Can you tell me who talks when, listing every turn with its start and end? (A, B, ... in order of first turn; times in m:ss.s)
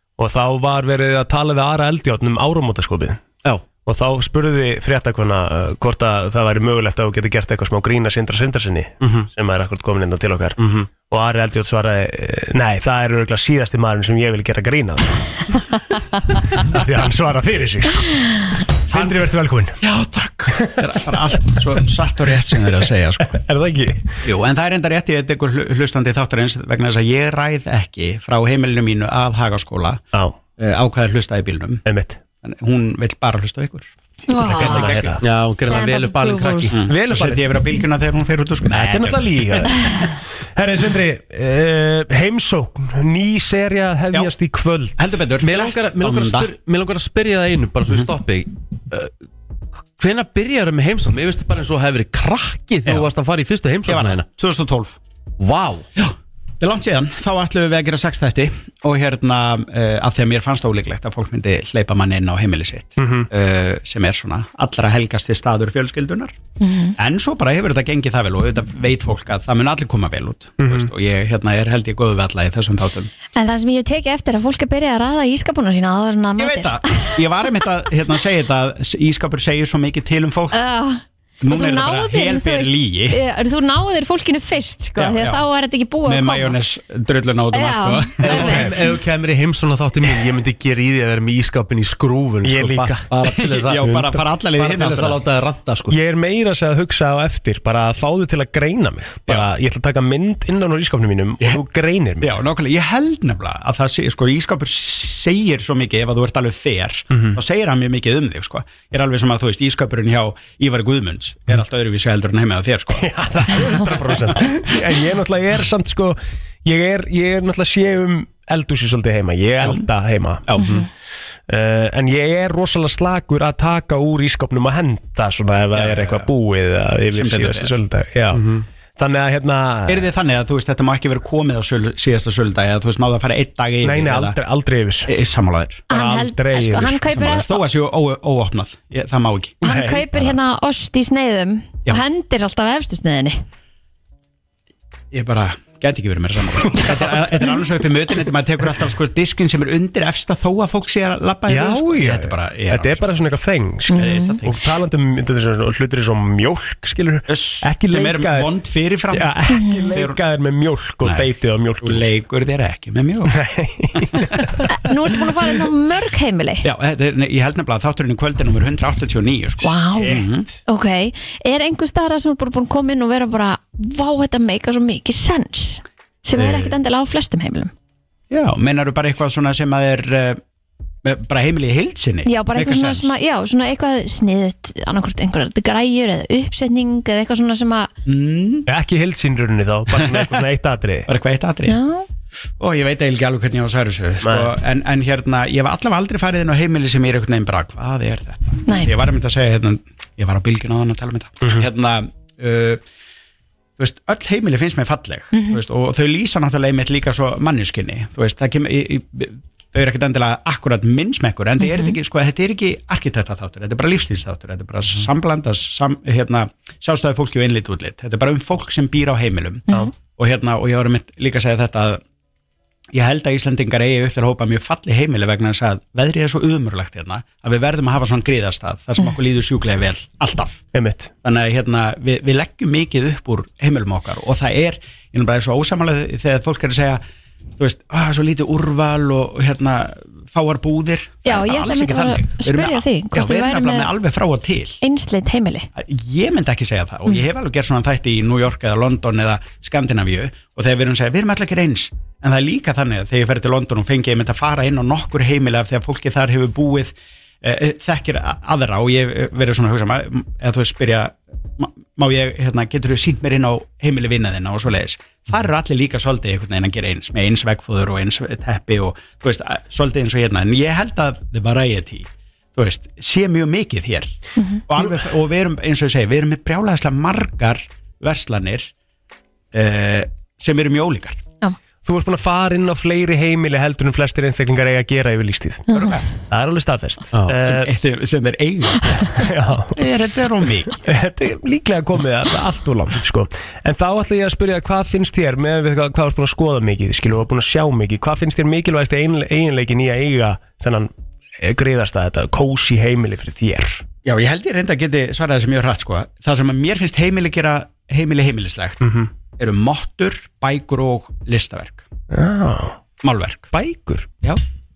0:00.2-0:03.2 A
0:03.9-0:19.8 A
0:09.0-0:09.3 B
0:10.6-0:10.9 B
0:18.9-0:19.2 C
0:19.8-0:23.4 C
0:20.6-0:21.0 A
0:22.5-0:22.8 A
0:23.3-0:24.3 A
0:24.2-0:30.0 C
0:30.6-0:31.8 C
0:31.9-0:32.2 A
0:32.4-0:33.9 C
0:34.3-0:35.1 D
0:34.4-0:35.2 A
0:34.4-0:35.2 C
0:35.2-0:36.8 B
0:35.6-0:36.7 D
0:36.7-0:39.8 C
0:36.9-0:37.5 A
0:38.7-0:45.2 A
0:45.0-0:46.5 C
0:45.4-0:49.1 B
0:50.0-0:54.3 B
0:53.9-0:55.0 C
0:55.4-0:55.9 B
0:56.0-1:06.3 C
1:03.0-1:03.3 A
1:06.6-1:07.0 D
1:07.0-1:13.1 C
1:10.6-1:10.9 A
1:13.4-1:17.7 D
1:16.4-1:20.6 C
1:20.5-1:26.6 D
1:21.4-1:23.2 C
1:25.0-1:25.4 C
1:26.0-1:28.8 C
1:27.5-1:28.9 D
1:28.2-1:36.0 B
1:32.4-1:33.0 A
1:33.1-1:35.2 C
1:33.8-1:34.2 A
1:35.9-1:42.3 A
1:42.2-1:53.9 C
1:47.1-1:47.4 A
1:52.9-2:00.6 A
1:59.6-1:59.9 C
2:00.5-2:00.9 C
2:00.6-2:00.9 D
2:01.5-2:10.1 A
2:05.7-2:06.3 C
2:07.1-2:07.7 C
2:08.3-2:08.7 B
2:09.9-2:14.4 C
2:13.8-2:15.1 A
2:15.1-2:15.8 C
2:15.9-2:17.1 A
2:15.9-2:17.6 D
2:17.1-2:19.8 C
2:19.6-2:23.4 D
2:19.6-2:20.3 A
2:25.1-2:33.1 C
2:26.7-2:27.4 A
2:31.5-2:38.5 A
2:33.9-2:34.4 D
2:33.9-2:34.6 C
2:37.3-2:40.2 C
2:39.1-2:42.1 A
2:39.5-2:39.9 D
2:41.0-2:41.3 C
2:41.8-2:43.4 C
2:43.3-2:44.6 A
2:44.0-2:44.6 C
2:44.7-2:46.7 D
2:46.6-2:50.5 C
2:49.6-2:57.7 D
2:56.4-2:56.7 C
2:58.3-3:00.4 C
3:01.0-3:03.1 C
3:02.3-3:07.9 D
3:08.1-3:08.7 C
3:08.7-3:11.1 A
3:10.0-3:10.4 C
3:11.1-3:11.8 C
3:11.7-3:12.1 D
3:12.6-3:22.8 C
3:14.2-3:14.5 A
3:18.7-3:18.9 D
3:23.8-3:42.0 C
3:25.3-3:25.6 D
3:31.6-3:32.0 D
3:42.9-3:50.6 C
3:50.7-3:51.1 A
3:51.2-3:57.0 C
3:57.6-4:04.8 C
4:01.2-4:03.9 D
4:04.8-4:05.7 D
4:05.8-4:34.1 C
4:34.4-4:34.6 D
4:34.7-4:38.7 C
4:39.5-4:41.2 C
4:41.8-4:47.7 A
4:45.7-4:46.0 D
4:45.7-4:46.1 C
4:47.1-4:47.4 B
4:47.4-4:50.8 C
4:49.1-4:49.9 A
4:50.7-5:03.8 A
5:04.0-5:08.8 C
5:08.8-5:09.1 A
5:09.4-5:11.8 C
5:12.1-5:12.8 A
5:13.0-5:13.5 C
5:13.5-5:14.1 A